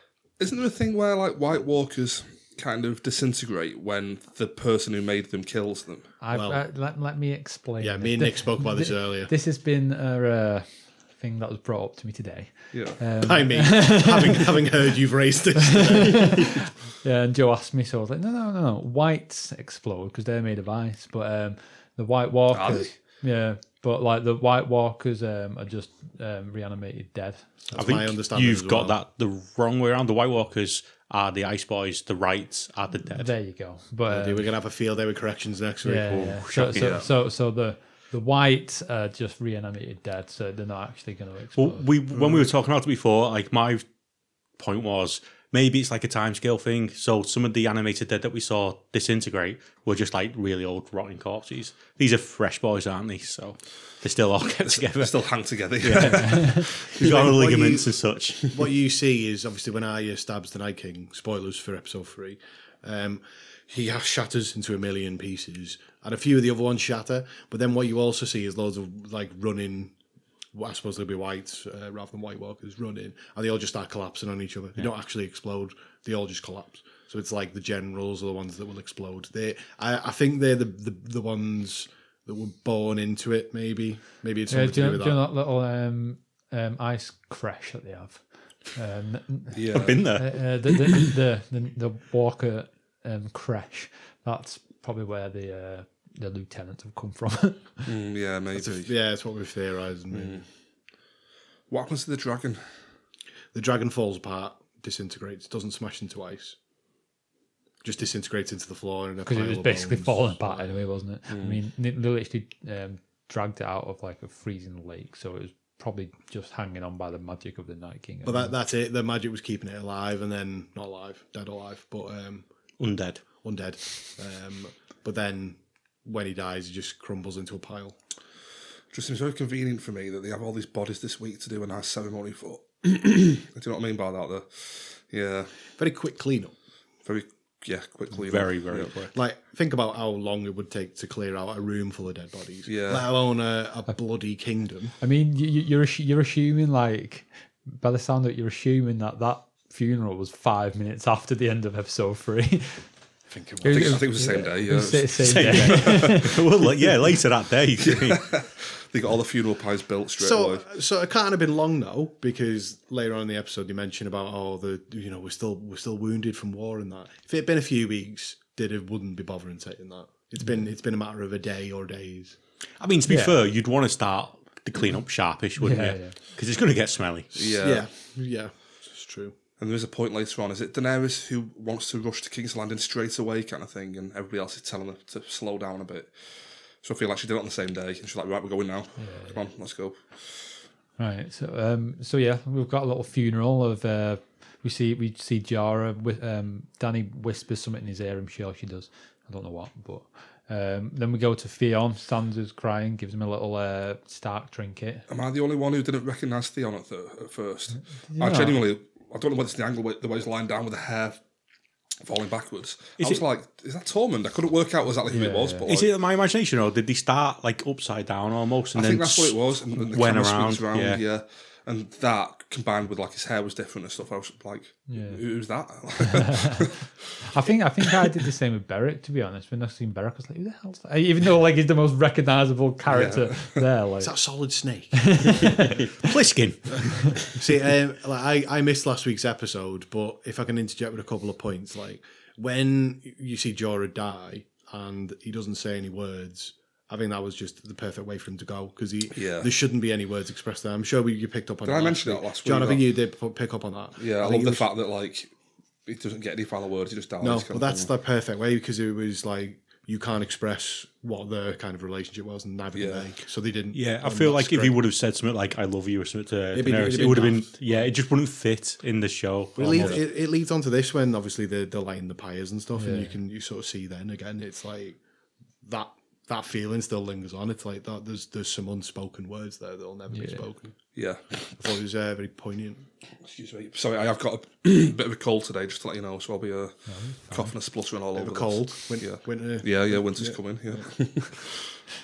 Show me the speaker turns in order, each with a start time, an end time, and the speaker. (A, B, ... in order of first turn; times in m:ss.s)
0:00.4-0:06.1 A
0:06.2-0:14.6 B
0:06.3-0:06.6 C
0:07.8-0:09.3 C
0:12.7-0:13.0 A
0:13.2-0:16.5 C
0:15.6-0:27.6 B
0:22.5-0:22.9 A
0:27.7-0:29.0 C
0:27.7-0:33.3 D
0:33.1-0:34.5 B
0:34.1-0:36.4 C
0:35.8-0:41.9 B
0:36.4-0:36.9 D
0:36.7-0:37.1 A
0:41.5-0:43.8 D
0:44.6-0:55.2 D
0:54.6-0:57.3 A
0:55.8-0:58.6 D
0:56.3-0:56.6 B
0:57.0-1:09.9 C
1:10.5-1:25.2 C
1:24.5-1:37.9 B
1:29.5-1:30.0 A
1:29.7-1:30.3 D
1:37.8-1:38.9 A
1:38.5-1:40.4 C
1:40.1-1:40.4 A
1:41.7-1:42.6 A
1:43.5-1:46.6 C
1:47.8-1:50.7 C
1:49.3-1:58.5 B
1:51.3-1:51.6 A
1:58.2-2:02.5 C
2:02.8-2:03.2 D
2:03.4-2:08.0 C
2:08.9-2:15.5 A
2:15.8-2:16.5 C
2:17.0-2:18.9 A
2:18.1-2:19.1 D
2:19.1-2:25.0 C
2:22.7-2:23.0 A
2:25.0-2:32.9 B
2:33.3-2:34.2 C
2:33.6-2:36.4 B
2:33.6-2:36.3 A
2:35.2-2:38.3 D
2:37.8-2:40.6 A
2:40.2-2:52.4 C
2:52.8-2:57.3 D
2:53.0-2:53.4 B
2:55.6-2:56.2 B
2:57.4-2:57.9 A
2:57.4-2:59.3 C
2:59.6-3:10.5 A
3:09.0-3:09.4 B
3:11.0-3:25.1 B
3:25.1-3:31.2 A
3:28.1-3:28.6 B
3:32.0-3:35.9 A
3:35.1-3:35.7 B
3:35.6-3:41.0 D
3:38.7-3:46.7 A
3:44.9-3:45.2 B
3:46.1-3:54.2 B
3:52.9-3:53.6 A
3:54.0-3:55.4 C
3:54.9-3:55.9 B
3:56.0-3:57.2 D
3:57.2-4:14.7 C
4:09.2-4:09.5 A
4:11.6-4:12.9 A
4:14.0-4:15.3 A
4:15.8-4:17.9 A
4:17.2-4:24.8 C
4:22.7-4:23.0 A
4:23.7-4:30.0 D
4:26.5-4:27.5 C
4:29.6-4:35.0 C
4:32.8-4:33.1 B
4:35.6-4:40.9 C
4:40.1-4:40.4 B
4:40.9-4:41.4 A
4:41.6-4:42.8 C
4:43.2-4:51.5 A
4:46.9-4:47.5 B
4:48.1-4:50.8 C